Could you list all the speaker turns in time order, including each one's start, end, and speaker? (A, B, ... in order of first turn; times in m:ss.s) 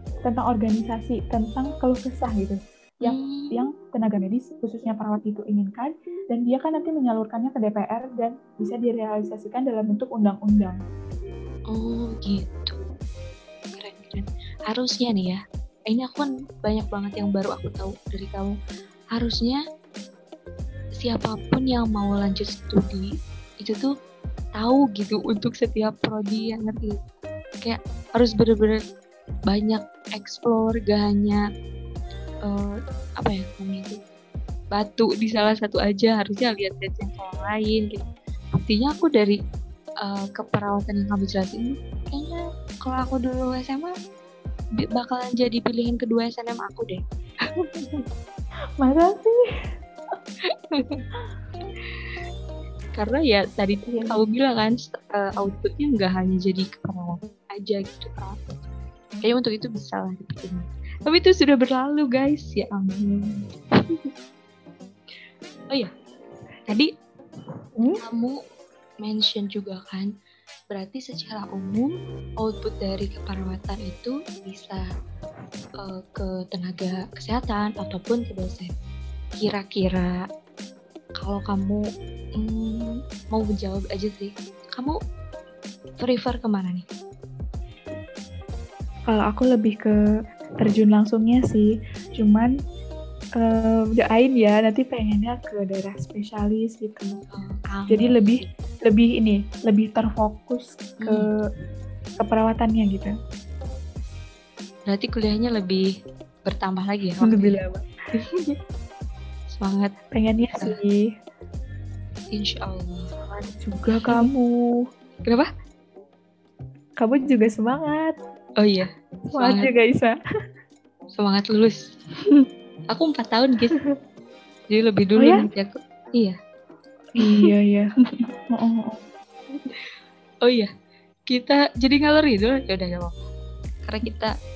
0:00.2-0:10.8 A
0:03.0-0:03.5 B
0:11.7-0:12.8 B
0:13.8-0:18.6 B
0:19.1-0:19.6 B
0:21.0-0:23.1 B
0:23.6-0:23.9 B
0:24.6-0:27.0 B
0:27.6-0:28.8 B
0:29.5-0:31.4 B
0:32.4-0:34.0 B
0:34.7-0:39.4 B
0:40.0-0:43.9 B
0:44.8-0:48.0 B
0:48.8-0:49.4 A
0:50.5-0:51.0 B
0:52.9-0:58.4 B
0:53.9-0:54.2 A
0:59.2-1:04.1 B
1:08.0-1:08.4 B
1:09.0-1:10.1 B
1:10.7-1:14.8 B
1:15.8-1:18.7 B
1:19.4-1:20.2 B
1:21.2-1:21.8 B
1:22.4-1:24.9 B
1:26.0-1:26.8 B
1:29.1-1:29.9 A
1:30.6-1:32.5 A
1:33.4-1:37.2 A
1:37.3-1:38.4 B
1:37.9-1:41.4 A
1:41.0-1:41.3 B
1:42.2-1:43.1 A
1:44.9-1:45.8 B
1:46.4-1:47.6 B
1:47.2-1:47.8 A
1:48.2-1:48.5 B
1:49.5-1:49.9 B
1:50.1-1:51.0 A
1:52.3-1:53.1 B
1:53.4-1:54.6 A
1:53.9-1:54.2 B
1:57.0-1:58.1 A
1:58.6-1:59.7 B
1:59.3-2:00.2 A
2:01.2-2:01.8 B
2:02.9-2:03.8 B
2:04.7-2:06.4 B
2:05.2-2:05.5 A
2:07.2-2:07.9 A
2:08.5-2:09.0 A
2:10.4-2:10.7 B
2:11.3-2:13.1 B
2:13.8-2:14.3 B